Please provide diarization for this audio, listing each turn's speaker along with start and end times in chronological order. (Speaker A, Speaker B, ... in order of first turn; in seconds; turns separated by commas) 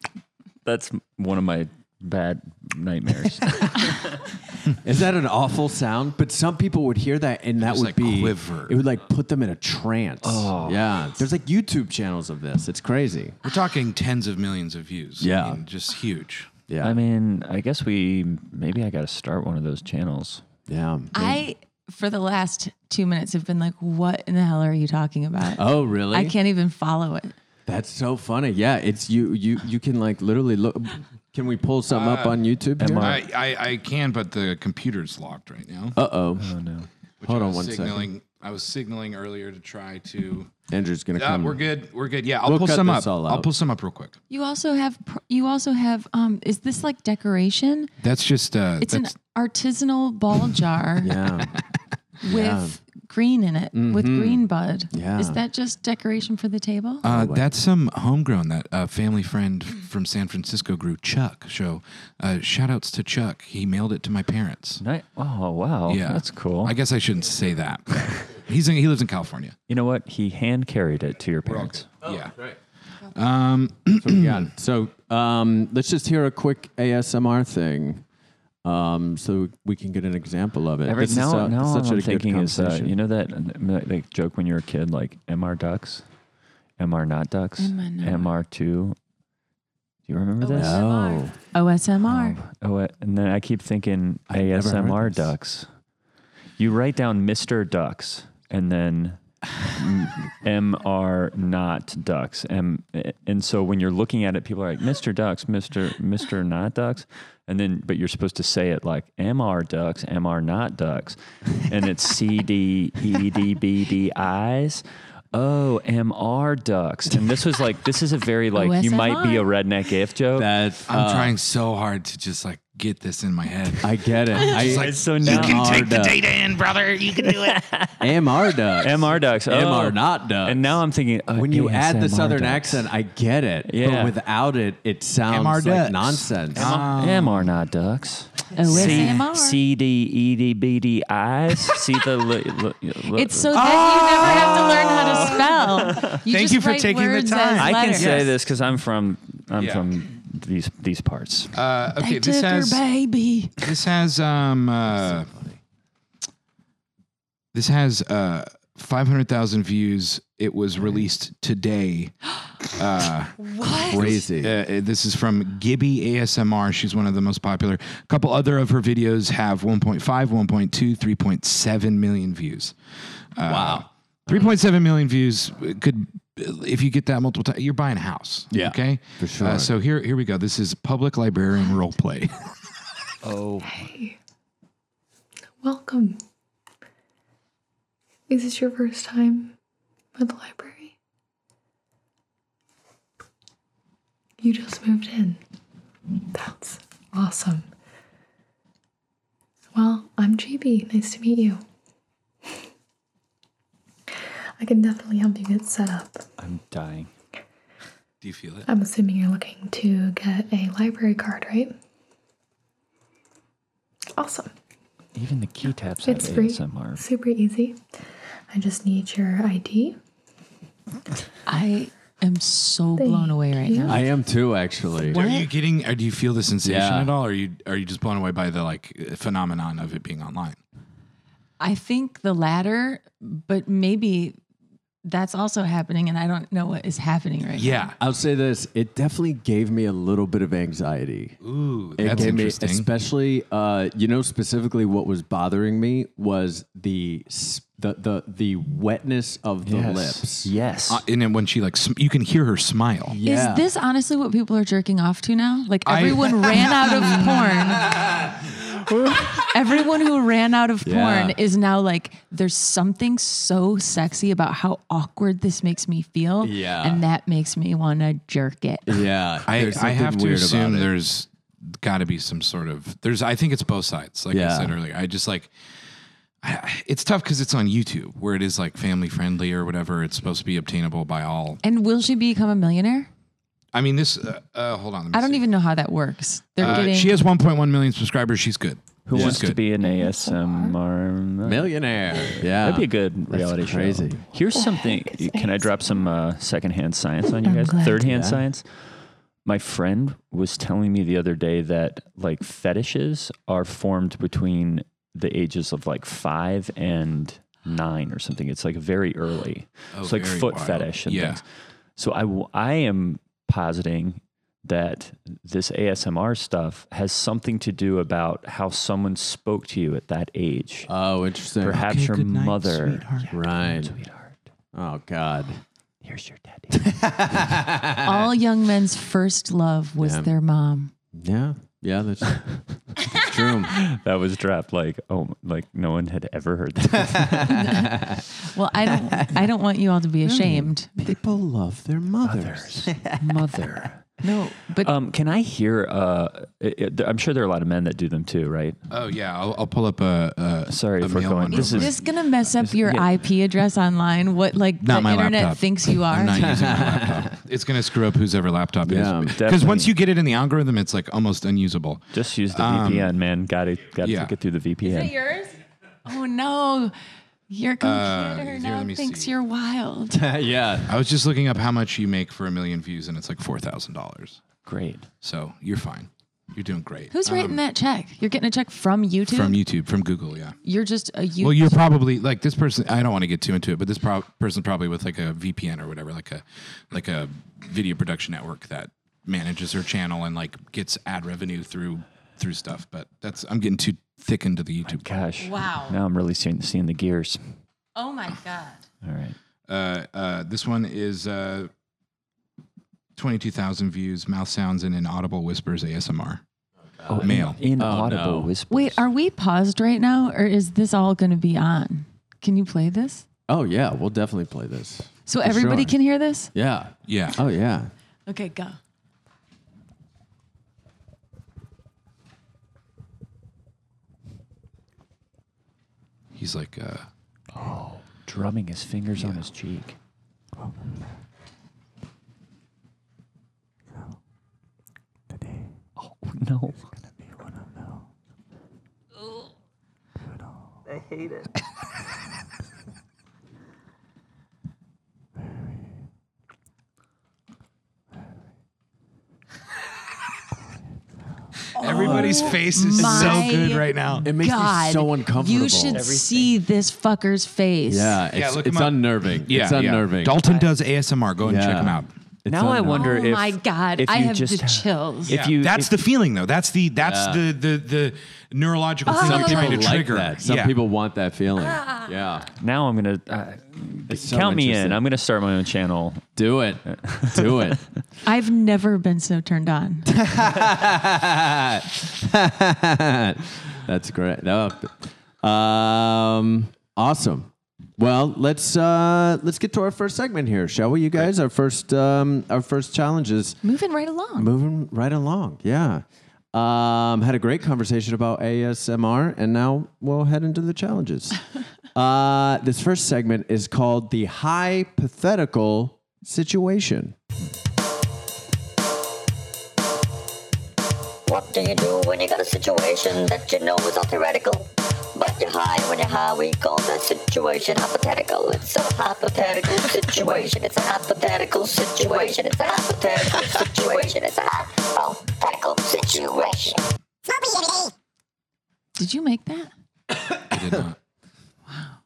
Speaker A: 0.6-4.2, Speaker B: 4.8-13.4, Speaker C: 7.6-8.8, Speaker A: 10.2-10.8, Speaker C: 13.4-16.5, Speaker B: 15.2-15.6, Speaker B: 16.7-17.0, Speaker A: 16.8-20.4, Speaker B: 20.7-21.4, Speaker D: 21.1-27.3, Speaker B: 25.6-26.3, Speaker B: 27.6-33.2, Speaker C: 31.9-32.4, Speaker A: 32.8-33.2, Speaker C: 32.9-36.0, Speaker B: 35.9-36.5, Speaker A: 36.4-36.9, Speaker C: 37.2-40.5, Speaker B: 37.2-38.1, Speaker B: 40.7-41.6, Speaker C: 41.2-44.2, Speaker B: 42.4-43.5, Speaker D: 44.3-47.9, Speaker C: 48.0-49.1, Speaker D: 48.8-51.2, Speaker B: 51.0-51.5, Speaker D: 52.2-57.0, Speaker B: 52.2-52.8, Speaker B: 53.7-55.4, Speaker B: 57.0-57.5, Speaker C: 57.0-64.8, Speaker A: 64.8-66.8, Speaker C: 65.9-69.5, Speaker A: 69.7-71.9, Speaker C: 71.5-72.5, Speaker C: 73.1-74.5, Speaker B: 74.0-78.0, Speaker B: 78.6-83.0, Speaker A: 80.8-86.0, Speaker A: 86.8-89.0, Speaker D: 87.6-88.3, Speaker A: 90.1-90.8, Speaker D: 90.4-92.4, Speaker B: 90.5-91.3, Speaker A: 92.0-95.7, Speaker B: 94.3-95.3, Speaker A: 96.6-120.5, Speaker D: 118.5-119.4, Speaker B: 120.3-121.3, Speaker C: 120.9-127.6, Speaker B: 123.8-126.2, Speaker A: 124.4-126.0, Speaker A: 127.5-128.1, Speaker B: 128.0-130.8, Speaker A: 128.8-132.9, Speaker B: 131.3-136.7, Speaker A: 133.6-134.2, Speaker C: 135.3-137.5, Speaker A: 136.6-143.6, Speaker D: 138.5-139.6, Speaker C: 138.7-139.1, Speaker D: 143.1-148.3, Speaker C: 143.5-145.5, Speaker A: 144.2-144.7, Speaker A: 145.4-146.1, Speaker C: 146.0-148.3, Speaker A: 147.6-151.5, Speaker C: 149.6-149.9, Speaker C: 151.5-152.8, Speaker D: 152.0-153.6, Speaker C: 153.6-155.3, Speaker B: 154.9-155.6, Speaker C: 157.5-172.8, Speaker D: 163.4-163.9, Speaker B: 163.8-164.6, Speaker C: 173.3-182.4, Speaker B: 173.4-174.5, Speaker B: 178.5-179.7, Speaker A: 183.2-183.9, Speaker E: 183.6-184.2, Speaker E: 185.6-186.2, Speaker E: 188.3-189.6, Speaker E: 190.2-190.9, Speaker E: 194.4-195.4, Speaker E: 196.3-197.7, Speaker E: 199.7-201.6, Speaker E: 204.6-206.2, Speaker A: 206.4-207.1, Speaker C: 208.2-208.7, Speaker E: 208.7-211.7, Speaker E: 214.2-214.5, Speaker A: 215.2-217.0, Speaker E: 216.0-217.8, Speaker E: 218.5-220.0, Speaker D: 221.5-224.0, Speaker E: 223.0-224.0, Speaker B: 223.9-225.2, Speaker C: 225.1-230.6, Speaker D: 225.1-225.5, Speaker B: 226.6-227.1, Speaker D: 231.6-234.4, Speaker D: 235.0-237.9, Speaker C: 237.6-237.9, Speaker B: 238.0-241.4, Speaker C: 241.4-242.9, Speaker B: 241.9-250.5, Speaker A: 242.0-242.3, Speaker A: 249.6-251.0, Speaker C: 250.9-253.2, Speaker B: 253.1-253.7, Speaker D: 253.2-257.9, Speaker C: 255.8-257.9, Speaker D: 259.5-269.0, Speaker B: 260.8-261.4, Speaker B: 266.4-267.0, Speaker B: 268.9-270.9, Speaker C: 269.5-275.5, Speaker B: 274.3-274.8, Speaker C: 276.4-281.6, Speaker D: 281.6-283.1, Speaker C: 283.7-285.4, Speaker D: 285.1-287.2, Speaker C: 286.6-289.6, Speaker A: 289.1-298.7, Speaker B: 289.1-289.4, Speaker E: 289.8-290.7, Speaker B: 291.4-294.2, Speaker E: 294.5-296.1, Speaker E: 297.4-297.8, Speaker B: 297.9-298.4, Speaker A: 299.4-311.4, Speaker C: 309.9-311.4, Speaker A: 312.0-320.9, Speaker B: 320.9-321.9, Speaker A: 321.6-324.4, Speaker C: 321.7-323.3, Speaker B: 323.3-323.9, Speaker B: 324.7-325.6, Speaker A: 326.0-327.0, Speaker B: 326.7-328.3, Speaker D: 328.0-330.9, Speaker B: 330.0-330.3, Speaker B: 331.1-333.8, Speaker A: 333.7-337.7, Speaker B: 337.0-338.2, Speaker D: 337.5-341.0, Speaker B: 339.1-339.4, Speaker B: 340.2-343.6, Speaker A: 342.2-344.1, Speaker D: 344.2-344.9, Speaker A: 344.8-348.8, Speaker C: 348.9-352.0, Speaker A: 350.7-353.1, Speaker D: 351.5-356.6, Speaker C: 354.8-363.1, Speaker B: 356.2-357.4, Speaker B: 358.8-359.4, Speaker A: 359.3-359.9, Speaker A: 362.1-365.1, Speaker C: 364.0-364.3, Speaker D: 364.8-366.9, Speaker D: 367.5-370.2, Speaker C: 367.8-369.3, Speaker B: 370.1-370.9, Speaker C: 370.9-374.4, Speaker A: 374.6-375.1, Speaker C: 375.2-377.6, Speaker D: 377.1-379.6, Speaker C: 379.3-380.6, Speaker D: 380.6-381.8, Speaker C: 381.4-395.1, Speaker A: 394.8-397.5, Speaker D: 395.4-396.0, Speaker D: 397.9-398.8, Speaker A: 399.0-399.4, Speaker C: 399.7-401.7, Speaker C: 403.1-406.4, Speaker B: 407.0-408.5, Speaker A: 407.1-409.0, Speaker C: 407.2-407.6, Speaker D: 408.7-413.2, Speaker B: 413.5-415.9, Speaker D: 415.3-416.5, Speaker B: 416.5-417.9, Speaker C: 417.1-417.4, Speaker D: 418.3-418.8, Speaker C: 426.3-427.1, Speaker A: 427.5-429.9, Speaker C: 429.2-429.4, Speaker A: 436.0-437.0, Speaker A: 440.9-441.5, Speaker C: 451.8-454.3, Speaker D: 451.8-458.2, Speaker B: 454.2-456.1, Speaker A: 455.9-456.5, Speaker B: 457.9-460.4, Speaker C: 458.3-462.1, Speaker B: 461.4-463.1, Speaker A: 462.4-465.9, Speaker D: 462.9-465.3, Speaker C: 465.3-470.7, Speaker B: 467.0-467.4, Speaker D: 469.1-469.9, Speaker B: 469.1-472.5, Speaker A: 472.6-476.3, Speaker B: 474.1-475.0, Speaker B: 476.4-477.8, Speaker A: 476.9-477.8, Speaker D: 478.2-480.1, Speaker B: 480.1-493.6, Speaker D: 493.6-494.5, Speaker B: 494.3-501.4, Speaker B: 501.9-507.1, Speaker F: 511.2-526.8, Speaker D: 529.0-529.7, Speaker C: 530.5-531.0, Speaker D: 531.7-531.9